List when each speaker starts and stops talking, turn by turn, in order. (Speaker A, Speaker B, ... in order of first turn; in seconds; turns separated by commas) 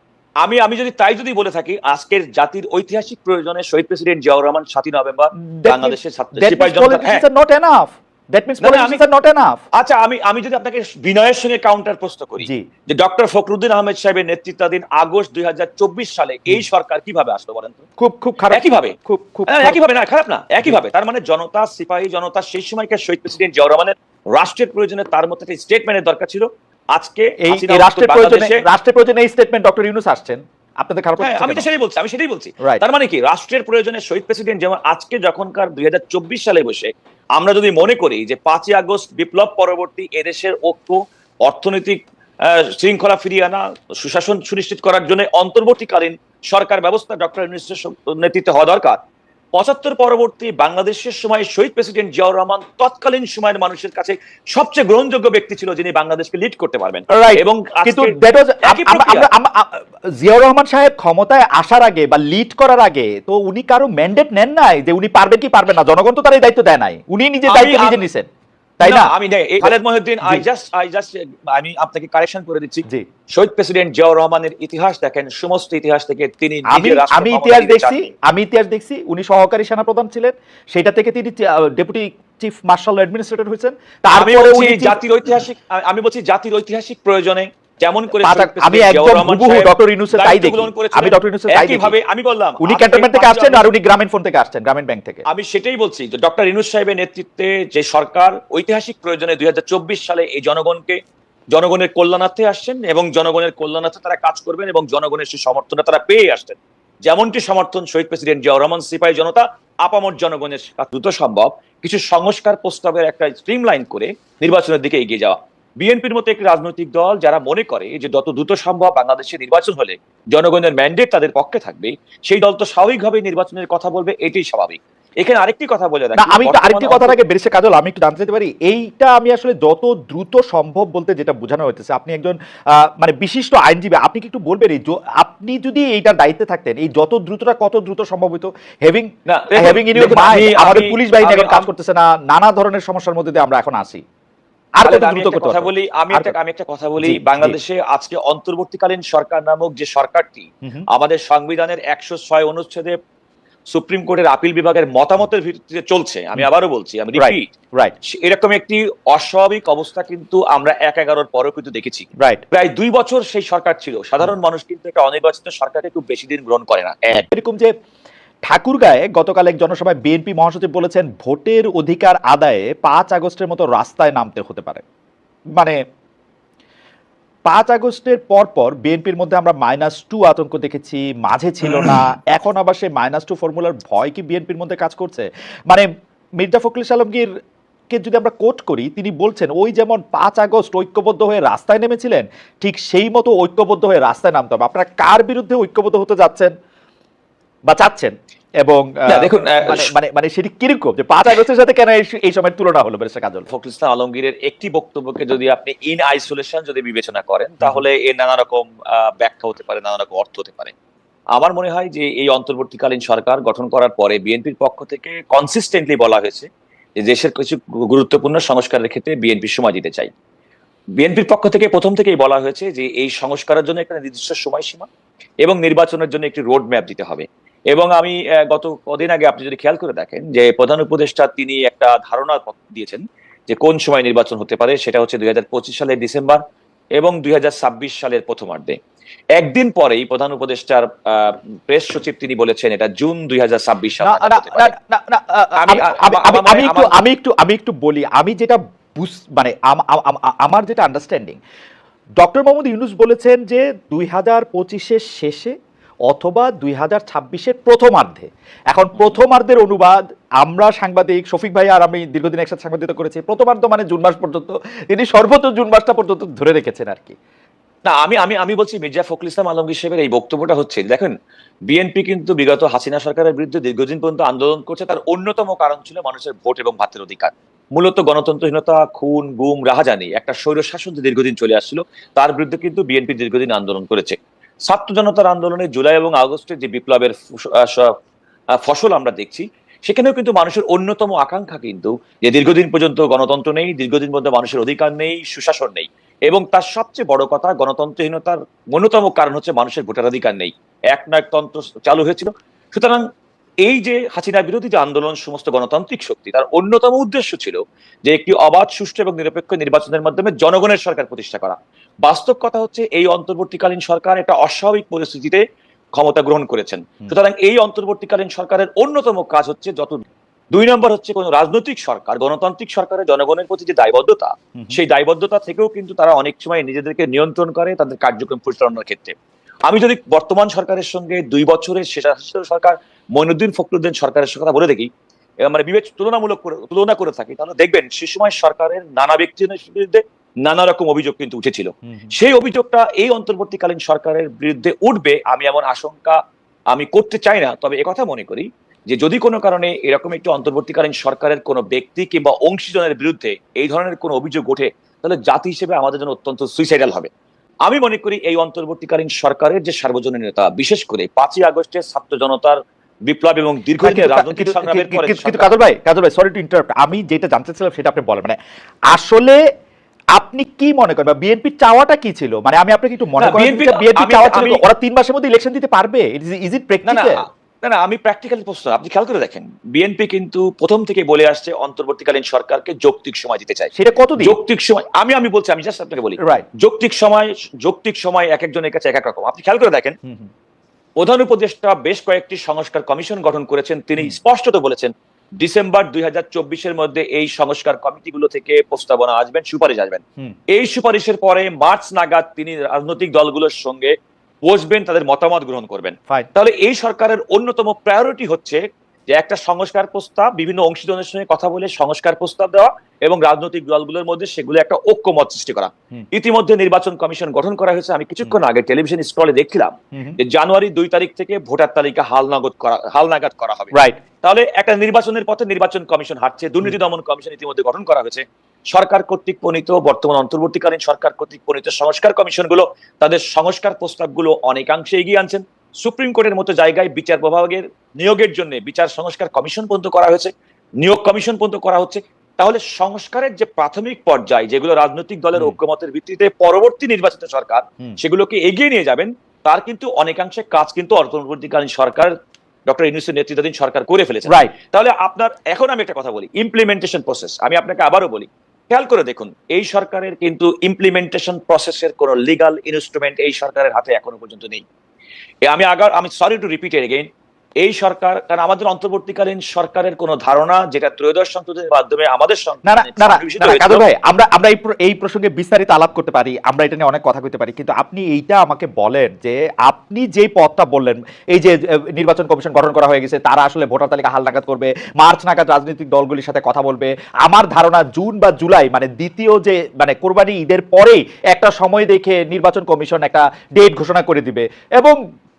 Speaker A: 0.4-7.2, Speaker B: 5.4-9.6, Speaker A: 8.6-9.0, Speaker A: 9.8-17.8, Speaker B: 18.0-19.8, Speaker A: 18.5-28.6, Speaker B: 27.4-31.6, Speaker A: 31.2-49.0, Speaker A: 49.5-59.3, Speaker B: 57.1-68.2, Speaker A: 67.5-68.0, Speaker B: 68.8-69.1, Speaker A: 68.8-78.1, Speaker B: 69.6-70.4, Speaker B: 76.7-85.0, Speaker A: 84.1-93.7, Speaker B: 88.2-92.0, Speaker B: 92.6-95.2, Speaker A: 95.3-101.0, Speaker A: 101.5-127.2, Speaker B: 126.2-132.3, Speaker B: 133.0-144.0, Speaker A: 139.2-141.7, Speaker B: 144.8-146.3, Speaker A: 144.8-152.9, Speaker B: 147.0-147.6, Speaker A: 153.7-157.5, Speaker B: 157.1-157.9, Speaker A: 158.0-167.3, Speaker B: 167.3-167.7, Speaker B: 168.5-174.8, Speaker B: 177.5-185.9, Speaker B: 186.4-187.3, Speaker B: 187.9-196.5, Speaker B: 197.7-203.5, Speaker A: 199.1-199.9, Speaker A: 203.5-210.7, Speaker A: 211.3-216.5, Speaker A: 217.0-220.1, Speaker A: 221.0-224.9, Speaker A: 225.4-236.4, Speaker A: 237.0-238.8, Speaker A: 239.4-244.7, Speaker B: 244.0-251.4, Speaker A: 245.6-246.9, Speaker B: 252.2-255.5, Speaker B: 256.1-267.1, Speaker A: 267.9-271.1, Speaker A: 271.7-284.2, Speaker A: 284.7-287.9, Speaker A: 288.6-303.0, Speaker A: 303.6-315.4, Speaker A: 315.9-334.9, Speaker A: 335.4-346.2, Speaker A: 346.7-357.1, Speaker A: 357.6-365.5, Speaker B: 363.8-368.4, Speaker B: 368.9-369.4, Speaker B: 370.1-377.2, Speaker A: 373.2-374.6, Speaker A: 376.9-389.9, Speaker B: 383.7-384.4, Speaker A: 391.0-400.0, Speaker A: 400.5-403.9, Speaker A: 404.4-408.6, Speaker A: 409.1-440.3, Speaker B: 419.9-420.2, Speaker B: 423.7-424.0, Speaker A: 440.8-452.1, Speaker A: 452.7-464.6, Speaker B: 454.3-454.5, Speaker A: 465.4-467.1, Speaker A: 467.6-473.9, Speaker B: 472.6-495.0